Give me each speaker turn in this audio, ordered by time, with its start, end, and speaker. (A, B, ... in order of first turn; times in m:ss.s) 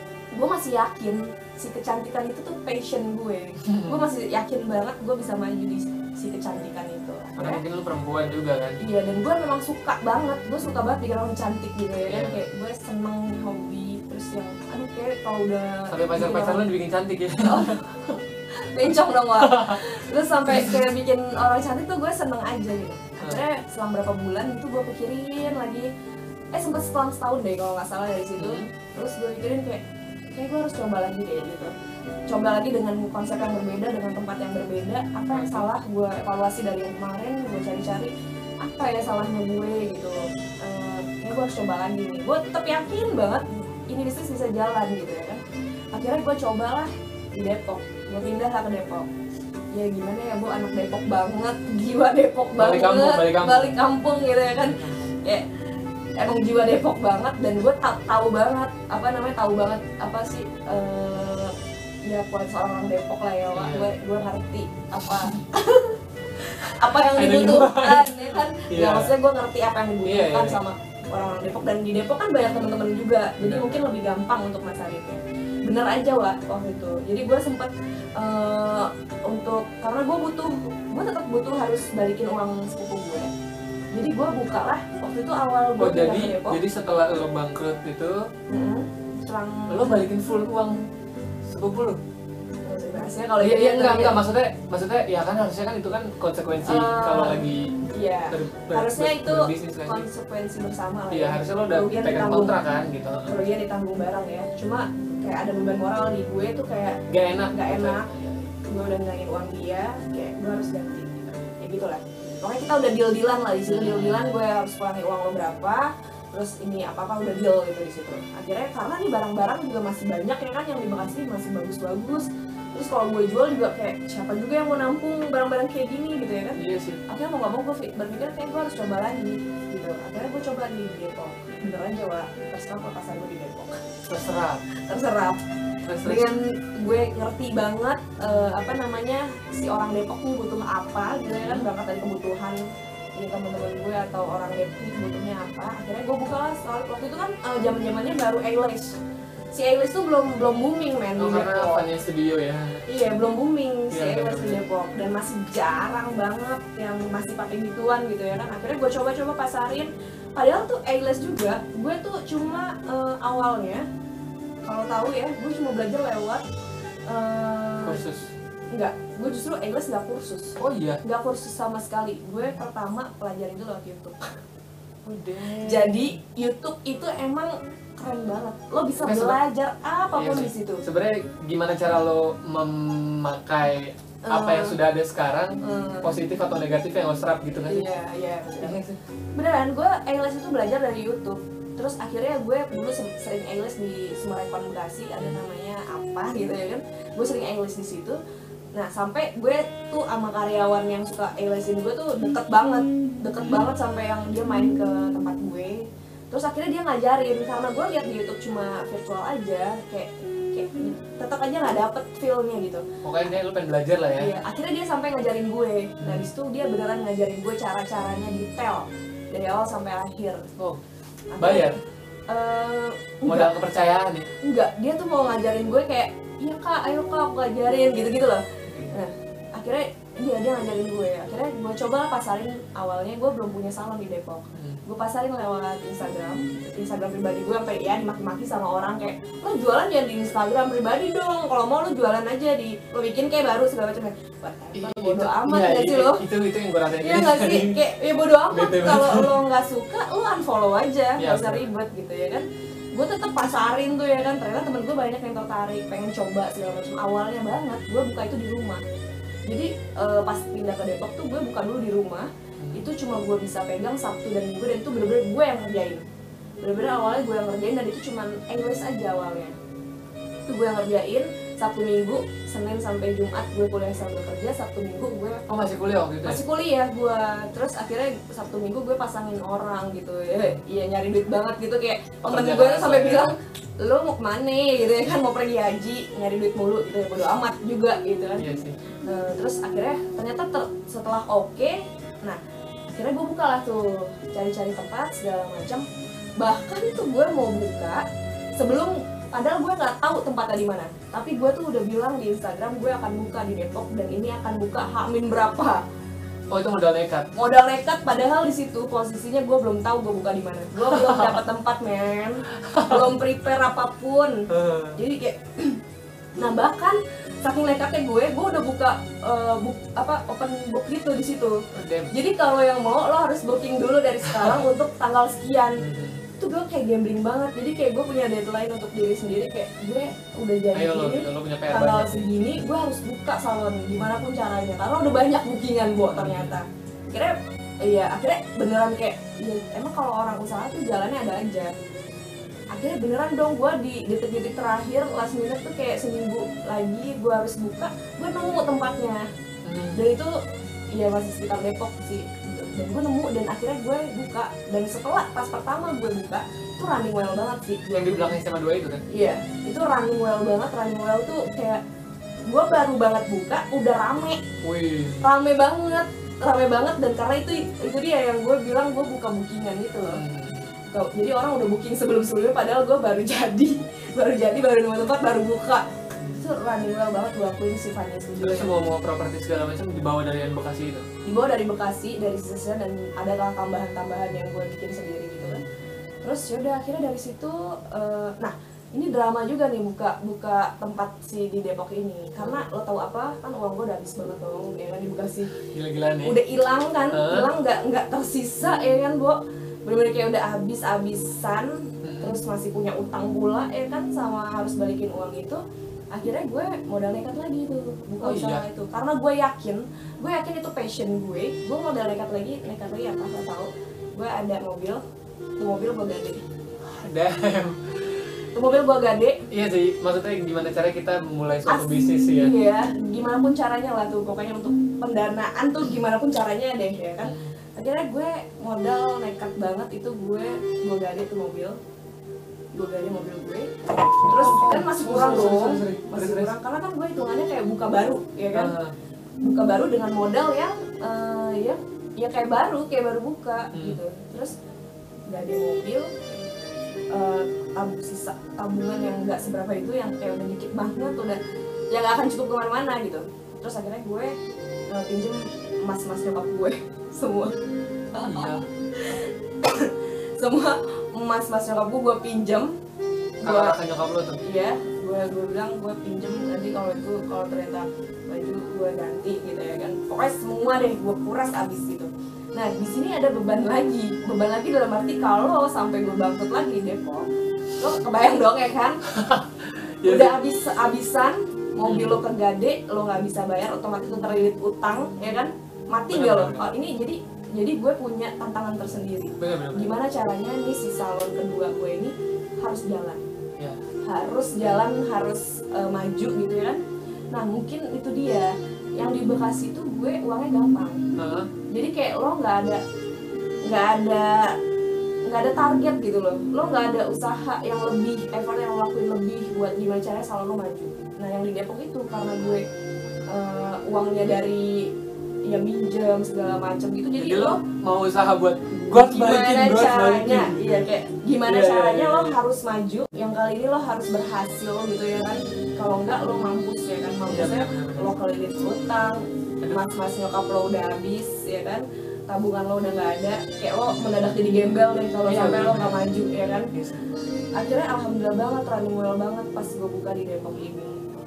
0:00.3-0:07.6 A
0:03.7-0:04.0 B
0:07.4-0:08.8 B
0:08.8-0:16.6 A
0:12.1-0:12.4 B
0:15.9-0:17.8 B
0:17.5-0:25.9 A
0:19.4-0:19.8 B
0:20.5-0:20.8 B
0:26.5-0:29.8 A
0:28.4-0:28.7 B
0:30.3-0:31.7 A
0:32.3-0:45.4 A
0:35.3-0:35.7 B
0:45.9-0:49.1 A
0:49.7-0:55.4 A
0:52.6-0:53.8 B
0:54.6-0:55.1 B
0:56.2-1:01.6 A
1:02.1-1:23.3 A
1:03.5-1:03.9 B
1:05.1-1:05.4 B
1:06.9-1:09.1 B
1:10.0-1:10.6 B
1:13.4-1:13.8 B
1:23.9-1:26.6 A
1:25.8-1:28.3 B
1:28.5-1:30.1 A
1:29.7-1:30.8 B
1:31.4-1:32.0 B
1:32.7-1:34.2 A
1:33.4-1:37.8 B
1:36.6-1:42.6 A
1:38.3-1:40.0 B
1:41.1-1:43.4 B
1:43.2-1:47.0 A
1:47.1-1:48.4 B
1:47.5-2:13.9 A
1:53.7-1:54.4 B
2:06.6-2:07.0 B
2:14.1-2:14.6 B
2:14.9-2:15.4 A
2:15.8-2:16.3 B
2:16.0-2:22.6 A
2:21.3-2:21.7 B
2:23.2-2:29.0 A
2:29.5-2:31.8 A
2:31.2-2:32.9 B
2:32.9-2:43.8 A
2:33.9-2:34.6 B
2:44.7-2:46.4 A
2:47.1-2:48.0 A
2:47.8-2:48.3 B
2:48.7-2:54.4 A
2:50.6-2:51.0 B
2:55.0-2:56.2 B
2:55.6-3:00.8 A
2:59.0-2:59.4 B
3:00.2-3:07.9 B
3:04.3-3:04.8 A
3:05.6-3:06.1 A
3:07.7-3:08.8 A
3:08.6-3:09.0 B
3:09.3-3:18.2 A
3:18.8-3:32.8 A
3:33.0-3:34.3 B
3:34.2-3:40.4 A
3:36.0-3:36.3 B
3:41.3-3:41.7 A
3:41.4-3:41.8 B
3:42.3-3:43.5 A
3:43.3-3:44.3 B
3:44.4-4:06.2 A
3:48.7-3:49.0 B
3:54.6-3:54.8 B
4:04.8-4:07.8 B
4:07.0-4:18.8 A
4:08.5-4:09.3 B
4:11.2-4:11.6 B
4:19.5-4:26.0 A
4:22.6-4:22.9 B
4:26.6-4:29.6 A
4:30.5-4:35.4 A
4:35.5-4:36.4 B
4:36.2-4:48.4 A
4:42.2-4:43.3 B
4:48.4-4:48.8 B
4:49.0-4:52.4 A
4:53.0-4:55.9 A
4:56.4-4:58.0 A
4:58.6-5:05.8 A
5:06.5-5:07.3 B
5:07.4-5:14.4 A
5:10.8-5:11.4 B
5:12.6-5:13.1 B
5:14.5-5:15.0 B
5:15.0-5:15.8 A
5:16.4-5:21.6 A
5:21.7-5:22.1 B
5:22.1-5:25.8 A
5:24.2-5:24.6 B
5:25.8-5:26.2 B
5:26.4-5:41.8 A
5:30.7-5:32.6 B
5:36.1-5:36.6 B
5:42.7-5:49.2 A
5:49.6-5:50.0 B
5:50.0-5:50.4 A
5:50.9-5:58.3 A
5:57.9-5:59.0 B
5:59.1-6:01.8 A
6:02.5-6:04.4 A
6:04.6-6:05.3 B
6:05.2-6:10.2 A
6:10.0-6:10.7 B
6:10.9-6:18.7 A
6:16.2-6:16.5 B
6:18.4-6:21.1 B
6:21.2-6:25.6 A
6:24.3-6:24.6 B
6:25.4-6:25.8 B
6:26.2-6:35.5 A
6:35.6-6:36.4 B
6:36.2-6:45.6 A
6:37.1-6:37.5 B
6:42.0-6:42.4 B
6:46.1-6:55.0 A
6:48.2-6:48.6 B
6:55.6-6:56.4 A
6:56.8-6:58.2 B
6:58.6-6:59.4 A
6:59.5-7:02.5 B
7:01.7-7:11.8 A
7:07.2-7:07.5 B
7:12.7-7:13.7 A
7:14.2-7:18.7 A
7:14.3-7:16.5 B
7:18.5-7:18.9 B
7:19.4-7:24.5 A
7:23.7-7:24.0 B
7:25.3-7:26.4 A
7:27.1-7:31.4 A
7:31.9-7:34.3 A
7:34.9-7:37.5 A
7:38.1-7:42.7 A
7:38.2-7:38.6 B
7:43.4-7:43.7 A
7:43.4-7:44.4 B
7:44.4-7:57.3 A
7:57.8-7:59.0 A
7:59.1-8:00.4 B
8:00.0-8:13.2 A
8:01.8-8:02.2 B
8:06.1-8:06.6 B
8:09.4-8:09.9 B
8:14.1-8:16.8 A
8:17.3-8:21.0 A
8:21.2-8:21.5 B
8:21.7-8:22.8 A
8:23.7-8:24.6 A
8:25.3-8:32.6 A
8:33.3-8:34.9 A
8:35.5-8:37.6 A
8:37.2-8:40.9 B
8:38.9-8:56.7 A
8:41.4-8:42.4 B
8:47.3-8:48.1 B
8:55.3-8:56.1 B
8:56.7-8:57.0 B
8:57.6-9:01.0 A